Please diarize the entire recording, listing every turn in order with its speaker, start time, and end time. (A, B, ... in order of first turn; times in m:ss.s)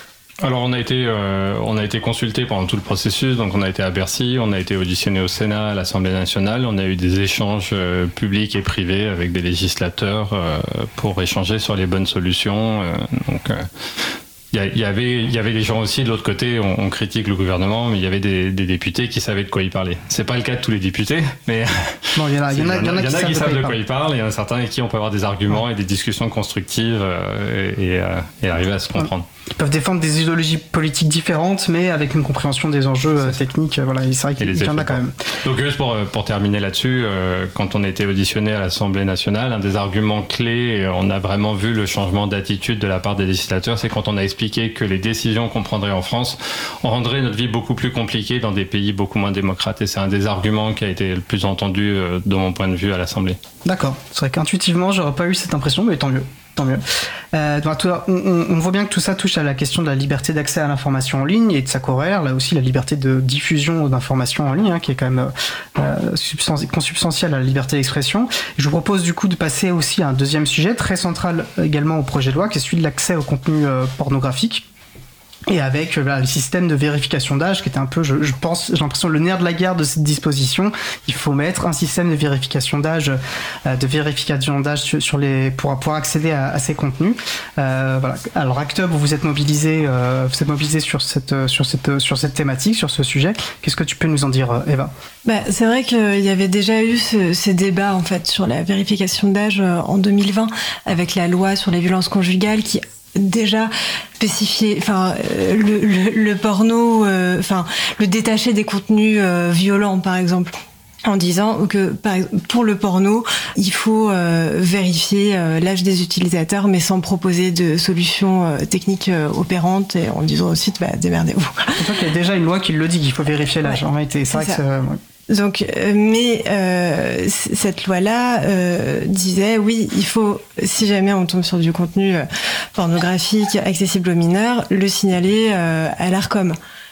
0:00.4-0:13.7 A
0:14.5-0:29.3 A
0:22.2-0:23.8 B
0:29.0-0:35.2 B
0:34.4-0:53.4 A
0:53.6-1:14.7 B
1:15.5-1:34.9 B
1:35.2-1:50.5 C
1:51.0-2:01.8 C
2:01.8-2:05.0 B
2:04.3-2:04.6 C
2:05.3-2:16.6 C